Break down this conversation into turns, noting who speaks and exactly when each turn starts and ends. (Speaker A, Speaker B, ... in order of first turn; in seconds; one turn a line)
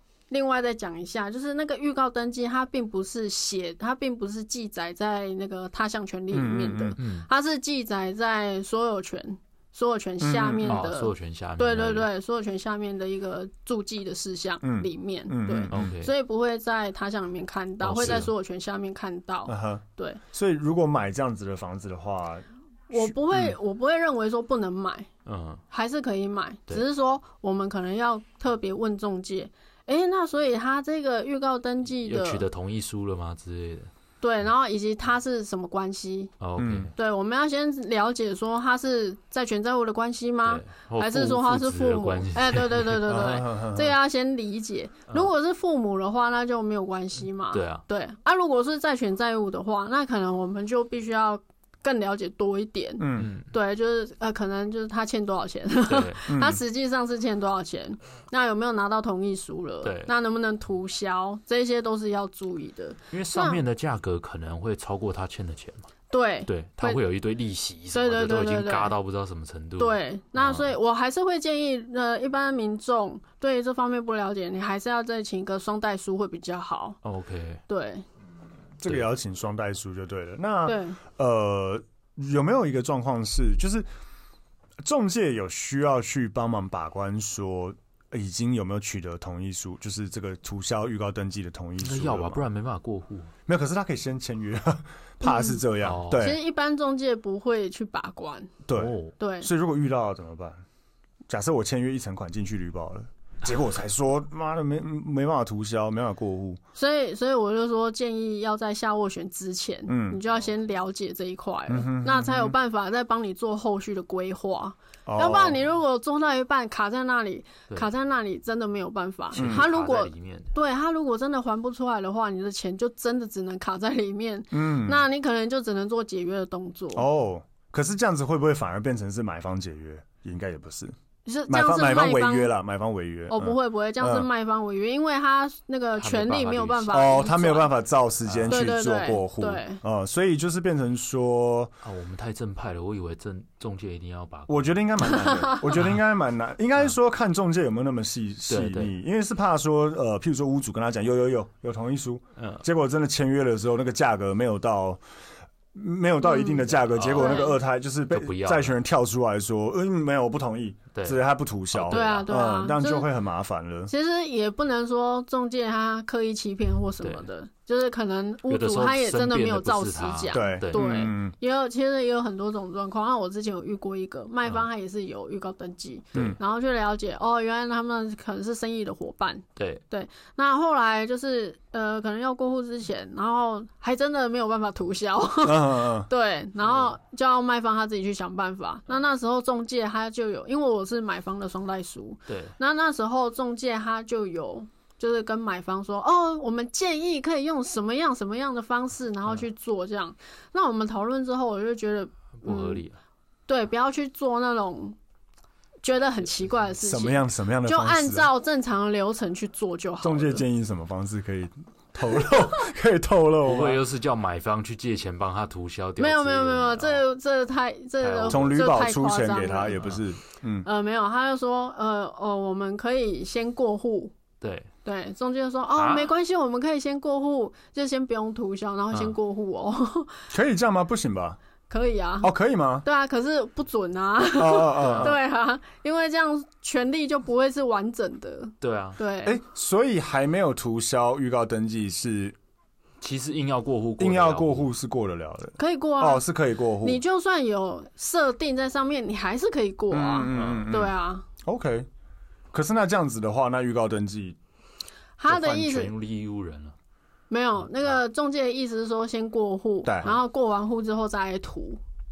Speaker A: 0.3-20.2
Speaker B: 6.3-7.0
Speaker C: 7.0-7.3
Speaker B: 10.2-10.8
Speaker C: 10.6-12.1
Speaker B: 14.6-15.9
Speaker C: 15.7-16.1
Speaker C: 17.8-18.3
Speaker B: 17.9-18.2
Speaker B: 19.5-23.5
Speaker A: 22.9-25.1
Speaker C: 25.2-25.6
Speaker A: 25.7-32.5
Speaker C: 32.0-33.9
Speaker A: 34.2-36.3
Speaker C: 36.4-36.9
Speaker B: 36.6-36.9
Speaker A: 36.9-63.6
Speaker C: 40.4-43.0
Speaker B: 43.0-44.0
Speaker C: 47.5-47.8
Speaker B: 53.0-53.3
Speaker C: 53.1-53.5
Speaker C: 55.9-56.2
Speaker B: 56.3-56.6
Speaker C: 59.8-60.1
Speaker C: 63.1-65.9
Speaker A: 66.1-67.0
Speaker C: 66.5-70.7
Speaker A: 67.9-68.9
Speaker A: 69.8-77.0
Speaker C: 77.0-77.6
Speaker A: 77.7-78.0
Speaker B: 78.8-83.8
Speaker A: 80.7-81.0
Speaker B: 84.8-92.4
Speaker C: 91.8-93.3
Speaker B: 93.5-96.4
Speaker A: 95.2-95.6
Speaker C: 95.8-96.2
Speaker A: 96.2-98.5
Speaker B: 98.7-100.6
Speaker C: 98.7-99.1
Speaker A: 99.2-99.5
Speaker B: 101.3-106.6
Speaker A: 106.7-127.0
Speaker B: 109.9-110.2
Speaker B: 111.7-112.5
Speaker B: 115.0-115.6
Speaker C: 119.3-120.5
Speaker B: 119.4-119.7
Speaker B: 124.5-125.0
Speaker B: 126.9-130.9
Speaker A: 131.2-132.5
Speaker B: 131.5-134.3
Speaker A: 133.3-137.8
Speaker C: 136.0-137.2
Speaker B: 136.9-141.8
Speaker C: 138.2-138.7
Speaker A: 138.5-139.8
Speaker C: 141.8-144.8
Speaker B: 144.5-155.0
Speaker C: 145.7-146.0
Speaker C: 148.5-148.9
Speaker C: 152.4-152.6
Speaker B: 155.7-163.9
Speaker A: 156.2-157.6
Speaker C: 156.8-157.5
Speaker C: 158.1-158.8
Speaker C: 161.7-162.3
Speaker A: 161.9-163.1
Speaker A: 163.9-202.8
Speaker C: 167.0-167.3
Speaker C: 168.5-170.8
Speaker B: 170.3-171.3
Speaker C: 176.1-176.4
Speaker C: 179.6-179.8
Speaker B: 185.4-186.1
Speaker C: 192.3-192.5
Speaker C: 202.4-203.0
Speaker A: 203.5-205.0
Speaker A: 205.8-210.4
Speaker B: 206.8-208.3
Speaker B: 210.0-213.8
Speaker C: 213.4-217.0
Speaker A: 216.0-219.8
Speaker C: 218.0-218.6
Speaker B: 218.3-220.7
Speaker A: 220.6-224.1
Speaker C: 224.4-224.7
Speaker A: 224.8-230.2
Speaker C: 225.7-226.1
Speaker B: 230.3-231.4
Speaker A: 231.7-232.3
Speaker B: 232.2-232.8
Speaker A: 232.8-239.4
Speaker B: 234.3-235.2
Speaker C: 234.8-235.1
Speaker C: 238.6-239.0
Speaker B: 239.2-242.3
Speaker C: 243.0-244.7
Speaker B: 244.0-247.0
Speaker A: 245.6-246.3
Speaker A: 246.8-251.2
Speaker B: 249.9-251.9
Speaker C: 250.3-250.7
Speaker B: 252.5-254.4
Speaker A: 255.2-255.9
Speaker C: 255.3-256.7
Speaker A: 257.3-261.8
Speaker B: 259.8-260.2